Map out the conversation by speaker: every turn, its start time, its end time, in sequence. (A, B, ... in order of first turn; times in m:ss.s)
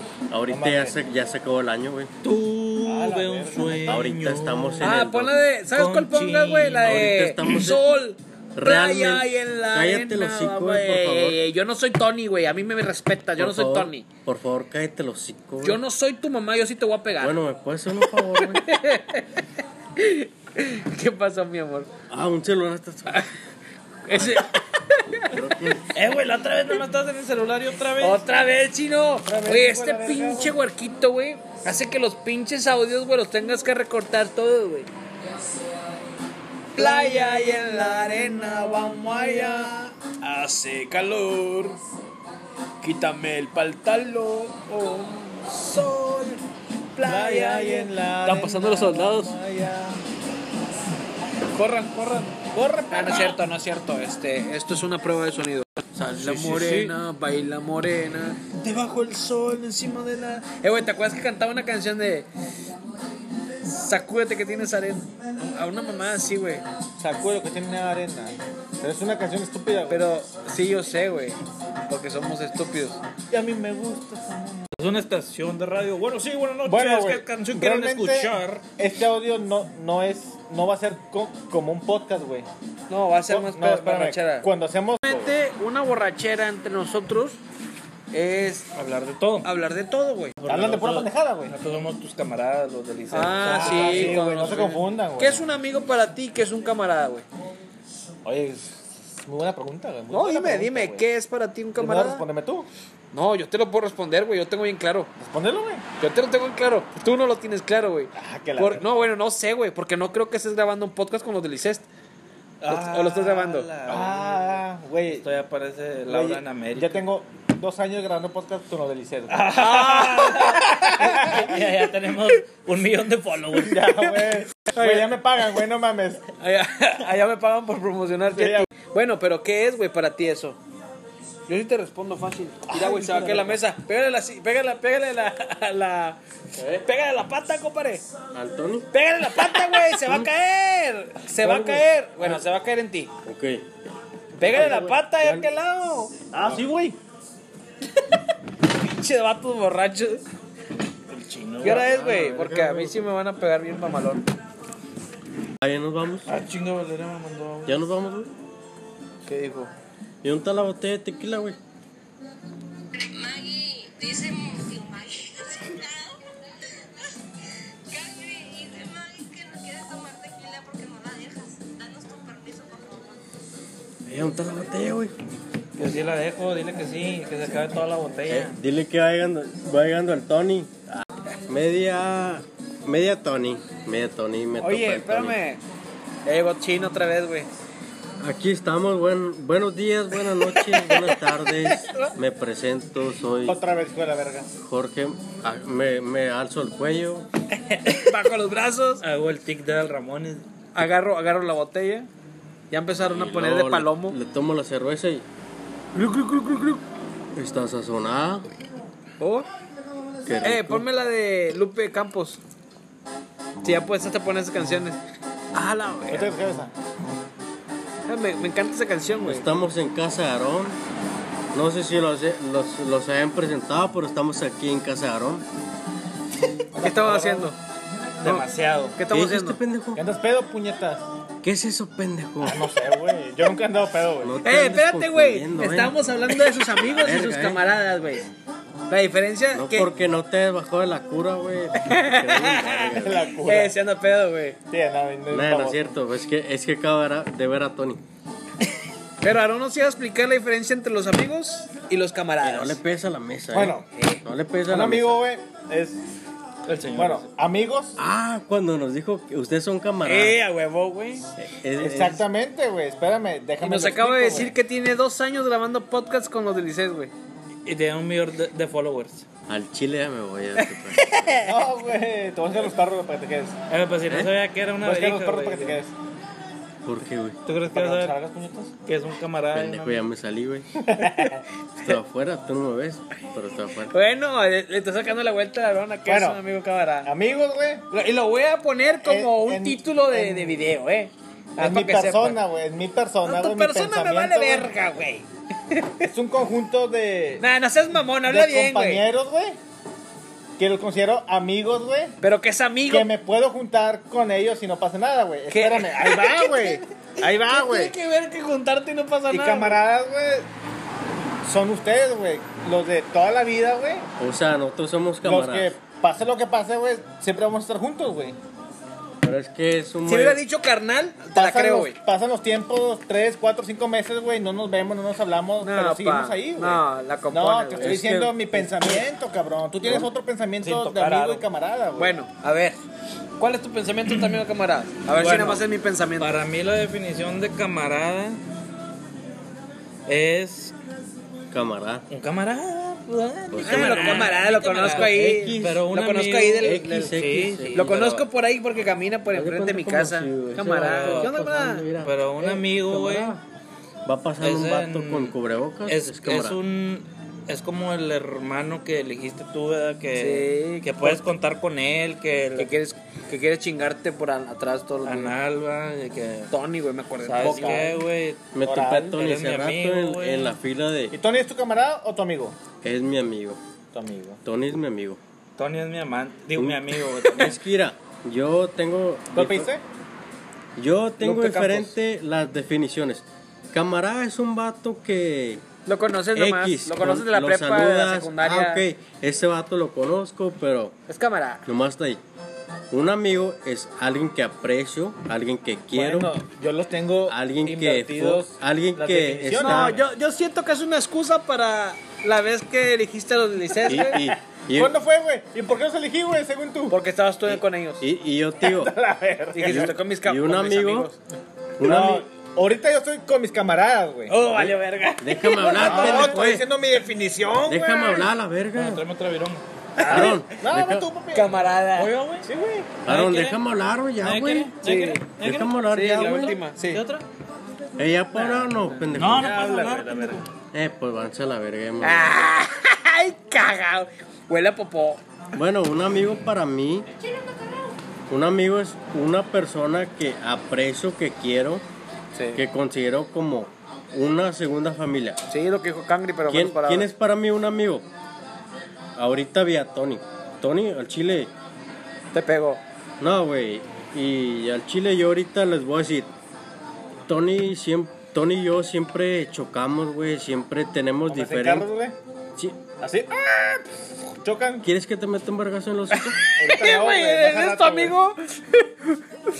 0:00.3-0:02.1 A
0:00.5-0:01.0 B
0:02.2-0:05.0 C
0:02.8-0:04.1 B
0:03.8-0:05.4 A
0:04.8-0:14.0 D
0:05.7-0:07.1 C
0:06.8-0:07.8 A
0:08.5-0:11.4 A
0:13.4-0:15.8 A
0:15.6-0:17.4 D
0:17.2-0:18.7 A
0:18.1-0:21.9 D
0:22.1-0:23.2 A
0:24.0-0:25.4 D
0:24.1-0:24.5 A
0:25.3-0:25.9 A
0:25.9-0:28.2 C
0:28.0-0:34.9 D
0:29.2-0:30.5 B
0:36.7-0:41.8 D
0:42.8-0:46.4 D
0:46.9-0:49.4 D
0:47.0-0:50.0 B
0:51.5-1:02.3 D
0:52.5-0:53.4 B
0:56.0-0:56.9 A
1:03.6-1:06.6 D
1:07.0-1:10.0 B
1:09.9-1:13.0 D
1:13.3-1:14.7 B
1:14.8-1:18.6 C
1:16.6-1:22.5 B
1:22.9-1:24.5 D
1:23.3-1:25.3 B
1:25.0-1:27.4 D
1:28.1-1:28.7 D
1:28.7-1:29.5 C
1:29.4-1:30.3 D
1:30.4-1:34.2 C
1:30.5-1:31.5 B
1:33.1-1:37.2 D
1:33.4-1:35.4 B
1:38.2-1:41.0 B
1:40.1-1:42.2 D
1:41.8-1:42.7 B
1:43.1-1:45.1 D
1:45.2-1:45.8 B
1:46.0-1:51.9 D
1:48.1-1:48.8 B
1:52.6-1:54.6 C
1:52.6-1:53.7 D
1:53.8-1:55.2 B
1:55.1-1:57.0 C
1:56.1-1:59.6 B
1:59.3-2:04.2 C
1:59.4-2:01.3 D
2:00.6-2:01.6 B
2:03.6-2:06.2 B
2:04.6-2:05.1 D
2:06.4-2:10.6 D
2:08.3-2:08.7 B
2:11.5-2:16.2 D
2:12.7-2:13.6 B
2:16.6-2:16.8 A
2:16.8-2:18.0 D
2:18.3-2:18.9 A
2:18.9-2:23.1 D
2:19.9-2:20.3 A
2:21.4-2:22.3 A
2:23.2-2:23.7 A
2:24.4-2:25.5 A
2:24.4-2:26.1 D
2:26.3-2:27.0 B
2:28.7-2:30.2 D
2:31.1-2:31.8 C
2:31.6-2:34.2 D
2:31.6-2:33.1 A
2:35.6-2:36.3 A
2:36.2-2:37.8 C
2:37.6-2:38.3 A
2:39.2-2:39.7 D
2:40.2-2:41.6 A
2:42.9-2:46.2 E
2:47.9-2:53.2 E
2:54.1-2:55.1 A
2:55.8-2:58.6 C
2:58.3-3:00.8 A
3:01.5-3:05.4 A
3:04.6-3:05.6 D
3:06.2-3:07.5 D
3:08.2-3:13.6 A
3:10.4-3:12.1 D
3:13.4-3:14.5 B
3:14.6-3:17.3 A
3:17.8-3:19.0 D
3:19.0-3:20.4 C
3:20.7-3:22.1 D
3:22.7-3:24.2 D
3:23.0-3:25.2 A
3:25.9-3:26.8 D
3:27.3-3:28.5 A
3:29.2-3:29.5 D
3:30.2-3:30.8 A
3:30.4-3:32.4 D
3:33.6-3:35.0 D
3:35.5-3:36.3 D
3:36.1-3:36.7 B
3:38.1-3:39.5 D
3:39.2-3:40.8 A
3:41.5-3:45.4 A
3:46.7-3:47.5 B
3:46.8-3:47.6 D
3:48.2-3:49.0 B
3:49.0-3:49.6 D
3:49.1-3:50.0 A
3:50.0-3:51.0 B
3:51.4-3:52.6 A
3:52.4-3:54.4 B
3:54.2-3:56.0 A
3:54.4-3:58.3 D
3:56.6-3:57.6 A
3:58.9-3:59.9 D
3:59.5-4:03.3 A
4:01.8-4:04.6 D
4:02.9-4:03.8 B
4:04.7-4:05.8 B
4:05.3-4:08.0 A
4:09.2-4:12.8 D
4:12.4-4:15.2 A
4:13.5-4:13.9 B
4:13.9-4:14.2 D
4:14.7-4:16.0 B
4:16.7-4:17.3 C
4:16.9-4:18.0 B
4:18.0-4:20.4 A
4:20.0-4:21.2 D
4:21.4-4:22.2 A
4:21.8-4:24.5 B
4:23.6-4:27.1 D
4:27.6-4:29.2 C
4:29.5-4:31.0 A
4:30.6-4:31.6 D
4:31.4-4:33.6 B
4:33.7-4:35.8 C
4:34.8-4:35.9 B
4:36.8-4:37.4 A
4:37.4-4:38.2 C
4:37.7-4:38.7 B
4:38.8-4:40.0 C
4:39.5-4:40.7 A
4:40.8-4:41.4 B
4:41.8-4:43.9 A
4:43.9-4:47.1 D
4:46.1-4:46.4 B
4:47.0-4:47.8 B
4:47.9-4:52.4 D
4:49.0-4:50.6 B
4:51.6-4:54.7 B
4:53.2-4:56.1 D
4:56.0-4:57.4 B
4:57.4-4:59.0 D
4:58.2-4:59.6 B
5:00.6-5:02.2 B
5:02.2-5:03.1 D
5:02.9-5:07.9 B
5:05.5-5:09.8 D
5:09.3-5:10.5 B
5:11.4-5:14.0 B
5:14.2-5:15.7 A
5:15.2-5:18.4 B
5:19.2-5:20.4 A
5:20.0-5:22.0 D
5:21.3-5:32.1 B
5:25.6-5:29.0 D
5:30.6-5:31.4 C
5:30.7-5:31.4 D
5:32.0-5:32.8 D
5:33.4-5:36.4 D
5:35.1-5:35.6 C
5:36.2-5:38.4 C
5:40.1-5:40.7 C
5:41.5-5:42.0 A
5:42.1-5:48.2 C
5:43.5-5:45.9 A
5:43.6-5:47.1 D
5:46.6-5:48.2 A
5:47.7-5:51.8 D
5:49.3-5:53.4 A
5:50.8-5:51.3 C
5:52.0-5:53.4 C
5:54.0-5:56.6 A
5:54.4-6:02.7 C
6:00.1-6:01.2 D
6:02.6-6:05.3 D
6:05.0-6:06.5 C
6:06.5-6:08.0 D
6:07.2-6:10.6 C
6:07.4-6:07.9 B
6:08.5-6:11.2 A
6:08.6-6:09.2 B
6:11.1-6:12.6 B
6:12.8-6:13.6 A
6:13.9-6:14.4 B
6:14.4-6:15.2 A
6:15.6-6:17.6 C
6:16.5-6:19.7 A
6:19.3-6:19.8 B
6:20.8-6:25.6 A
6:21.2-6:21.9 D
6:25.8-6:28.8 D
6:26.3-6:30.9 A
6:31.1-6:31.7 D
6:31.6-6:32.2 A
6:32.9-6:36.3 A
6:35.9-6:40.0 B
6:37.3-6:40.0 A
6:39.6-6:44.3 D
6:43.9-6:45.0 A
6:43.9-6:47.0 B
6:46.9-6:48.0 D
6:47.5-6:48.9 A
6:48.6-6:49.9 B
6:49.5-6:51.2 D
6:49.6-6:51.1 A
6:51.8-6:52.2 A
6:51.8-6:54.3 B
6:54.3-6:56.5 D
6:54.5-6:56.7 A
6:55.8-6:58.3 B
6:55.8-6:56.3 C
6:57.6-6:59.0 A
6:58.7-7:00.3 C
7:00.0-7:00.3 D
7:00.0-7:01.1 A
7:00.0-7:01.6 B
7:01.3-7:02.1 D
7:02.0-7:02.5 C
7:02.4-7:02.9 B
7:03.0-7:04.7 A
7:03.0-7:03.6 C
7:04.2-7:05.8 C
7:04.8-7:05.2 D
7:05.4-7:06.6 A
7:05.8-7:07.0 D
7:06.8-7:07.2 C
7:08.0-7:09.6 A
7:08.4-7:10.4 C
7:09.2-7:10.4 B
7:10.7-7:12.3 A
7:12.0-7:15.2 D
7:15.5-7:17.1 A
7:18.3-7:21.8 A
7:22.3-7:22.6 D
7:22.5-7:25.4 A
7:25.5-7:27.1 D
7:26.5-7:28.1 A
7:29.2-7:31.5 A
7:32.3-7:32.8 D
7:33.2-7:36.3 A
7:37.3-7:41.9 A
7:41.3-7:42.1 B
7:43.0-7:44.9 B
7:44.8-7:46.4 A
7:46.1-7:49.2 D
7:46.6-7:48.2 B